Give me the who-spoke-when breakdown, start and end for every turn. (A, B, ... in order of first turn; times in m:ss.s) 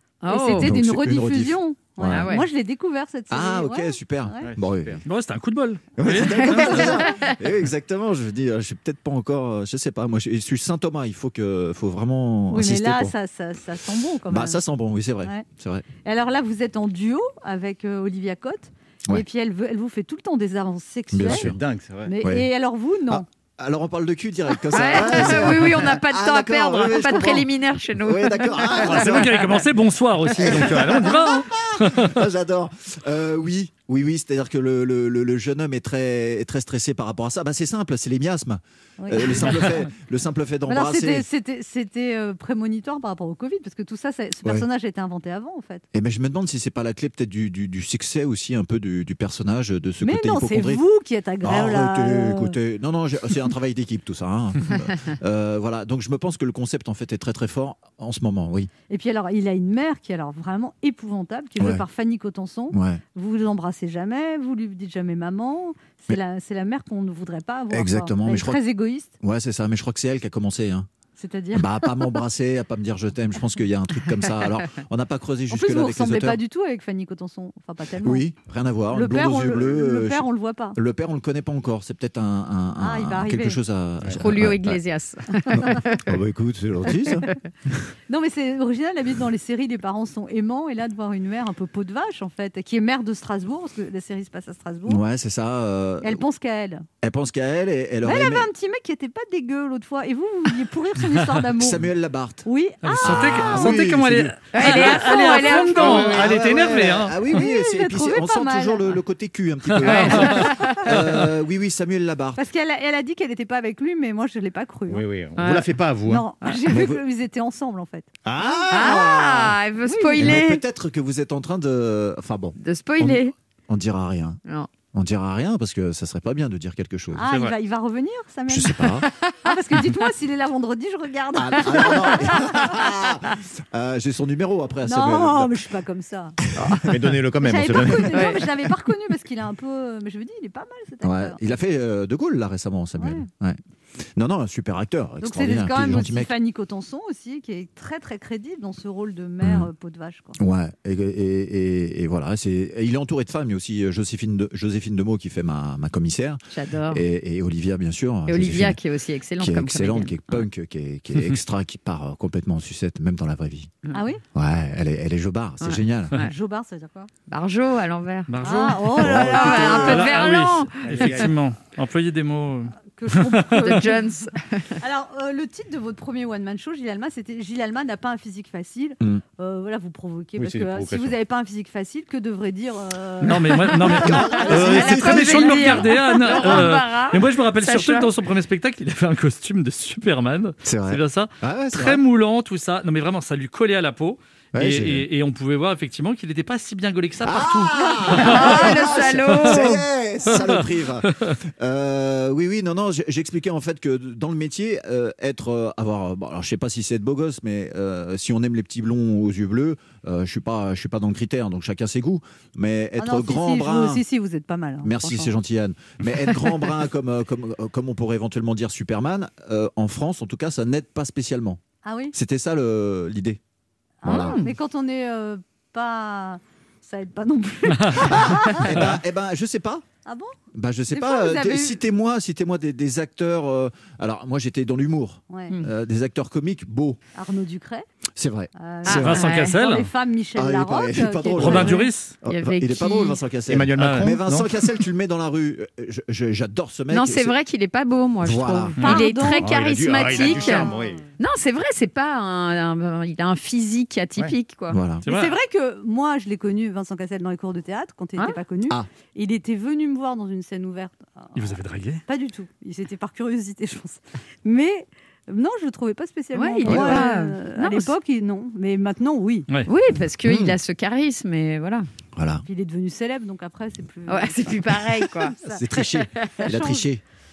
0:00.2-0:00.7 A
0:00.3-0:04.4 B
0:00.6-0:02.3 C
0:02.1-0:02.5 A
0:03.3-0:05.0 C
0:04.4-0:05.0 D
0:05.0-0:07.0 E
0:06.0-0:13.1 C
0:06.2-0:07.4 A
0:12.5-0:14.6 B
0:14.3-0:15.8 C
0:16.0-0:21.5 B
0:21.1-0:21.6 C
0:21.2-0:22.1 D
0:22.0-0:23.2 B
0:22.2-0:22.5 C
0:23.1-0:29.5 C
0:24.7-0:29.2 A
0:28.8-0:32.2 E
0:30.4-0:41.2 C
0:39.0-0:39.4 B
0:40.7-0:45.8 B
0:45.9-0:50.8 C
0:50.0-0:52.6 B
0:51.4-0:58.7 C
0:58.9-1:09.1 B
1:01.6-1:01.8 C
1:02.7-1:03.0 C
1:07.7-1:08.6 C
1:09.2-1:10.9 C
1:11.2-1:12.2 B
1:11.5-1:16.4 C
1:15.5-1:18.2 B
1:18.0-1:24.8 C
1:18.9-1:20.8 B
1:22.8-1:23.6 B
1:24.1-1:26.0 A
1:25.5-1:27.3 C
1:27.1-1:27.4 A
1:28.1-1:35.0 B
1:34.9-1:36.2 C
1:36.0-1:36.8 B
1:37.0-1:38.5 C
1:38.0-1:41.9 B
1:41.6-1:42.4 C
1:42.4-1:43.7 B
1:42.8-1:47.2 E
1:43.0-1:44.4 C
1:44.5-1:46.3 A
1:44.6-1:46.1 B
1:45.8-1:52.4 C
1:47.3-1:48.9 B
1:49.8-1:50.8 A
1:49.8-1:50.3 E
1:50.1-1:50.5 B
1:52.4-1:55.0 B
1:54.9-1:56.2 D
1:55.4-1:55.7 A
1:56.1-1:59.1 B
1:56.7-1:57.0 C
1:58.2-1:59.6 C
1:58.7-2:00.6 A
1:59.8-2:00.4 B
2:00.2-2:07.3 C
2:02.6-2:03.3 A
2:04.4-2:04.7 A
2:07.1-2:12.6 B
2:07.2-2:07.5 D
2:08.5-2:09.0 C
2:11.3-2:15.5 C
2:14.8-2:16.4 B
2:16.5-2:16.8 C
2:16.6-2:18.3 D
2:17.4-2:21.4 B
2:18.1-2:18.4 A
2:21.0-2:23.6 C
2:23.0-2:23.3 B
2:24.2-2:26.3 C
2:25.2-2:30.4 B
2:29.4-2:29.7 C
2:30.4-2:38.8 C
2:36.5-2:37.0 A
2:38.3-2:40.4 A
2:39.4-2:43.8 C
2:43.9-2:44.2 B
2:44.3-2:46.2 C
2:45.6-2:46.3 A
2:46.2-2:47.1 B
2:47.3-2:51.1 A
2:48.3-2:53.9 E
2:48.4-2:50.0 B
2:49.0-2:50.1 C
2:50.8-2:51.3 D
2:53.0-3:05.8 B
2:53.6-2:54.7 A
3:00.4-3:01.1 D
3:03.2-3:20.6 E
3:04.0-3:05.6 C
3:04.2-3:08.1 A
3:10.6-3:12.0 C
3:14.5-3:15.0 C
3:17.2-3:34.0 C
3:18.1-3:19.8 A
3:33.0-3:35.3 B
3:34.8-3:41.6 C
3:41.8-3:42.1 B
3:42.1-3:43.4 C
3:44.0-3:48.7 B
3:44.0-3:44.4 C
3:44.1-3:44.5 A
3:47.9-3:49.8 C
3:50.0-3:50.3 B
3:50.5-3:57.0 C
3:50.9-3:51.8 B
3:55.3-3:55.6 B
3:57.1-3:57.8 B
3:58.2-3:59.2 C
3:58.5-4:01.9 B
3:58.8-3:59.5 A
3:58.9-3:59.9 E
4:00.4-4:07.3 C
4:01.4-4:02.2 E
4:02.2-4:03.2 A
4:03.5-4:04.5 D
4:03.8-4:04.2 E
4:06.9-4:14.8 A
4:08.2-4:08.8 C
4:08.8-4:10.9 B
4:09.4-4:11.0 D
4:14.7-4:15.0 C
4:15.0-4:15.3 E
4:15.0-4:29.5 B
4:21.3-4:22.0 E
4:26.3-4:27.9 A
4:26.7-4:27.0 C
4:29.7-4:31.8 A
4:30.2-4:30.6 C
4:32.1-4:32.4 C
4:32.4-4:35.6 B
4:34.1-4:36.8 A
4:35.4-4:37.0 C
4:36.4-4:36.6 B